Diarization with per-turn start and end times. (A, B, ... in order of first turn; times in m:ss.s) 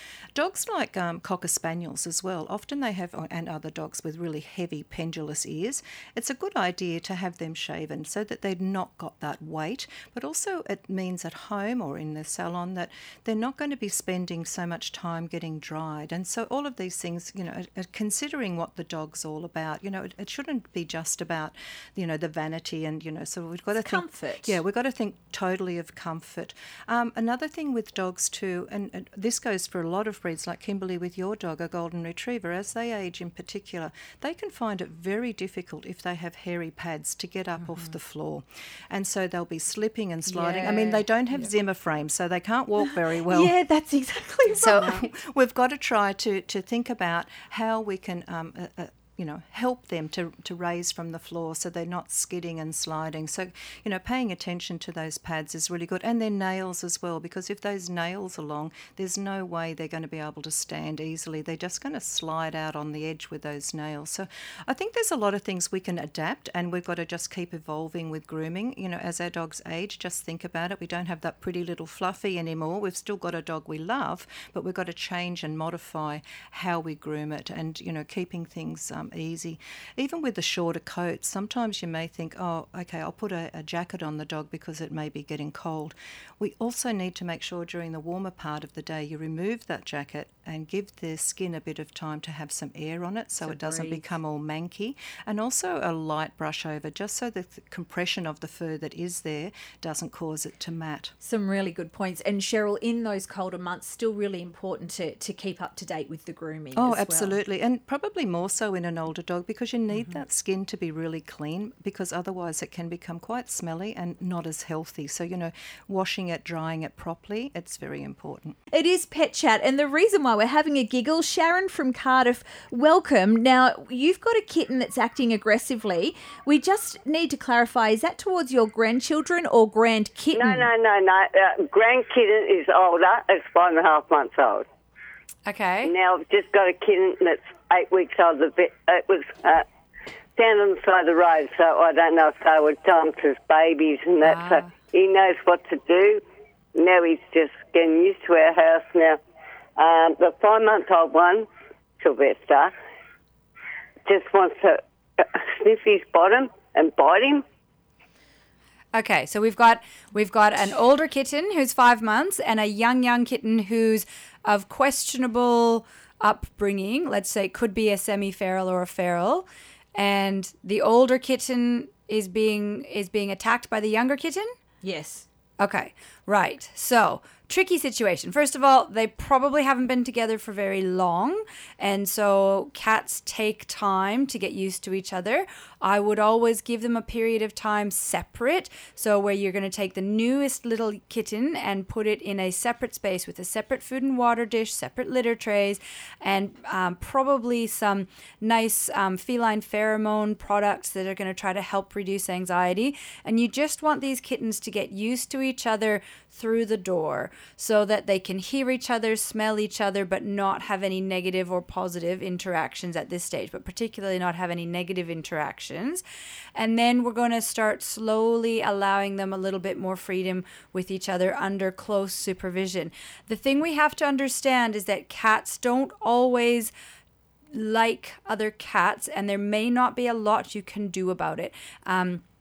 0:00.3-0:43.5 A
0:23.8-0:24.6 B
0:40.3-0:41.0 B
0:42.8-0:45.0 B
0:44.5-1:41.1 A
0:44.6-0:45.0 C
1:33.4-1:34.1 B
1:41.2-1:47.4 B
1:46.8-1:58.6 A
1:58.7-2:10.7 B
2:10.3-2:14.7 D
2:15.5-2:15.9 C
2:15.8-2:19.6 D
2:20.4-2:26.2 D
2:24.2-2:24.8 C
2:26.8-2:29.2 D
2:29.8-2:31.5 D
2:32.0-2:32.7 D
2:34.1-2:37.4 D
2:38.9-2:54.5 C
2:54.8-2:55.3 B
2:55.6-3:36.0 C
3:36.6-3:46.7 C
3:47.5-3:52.2 C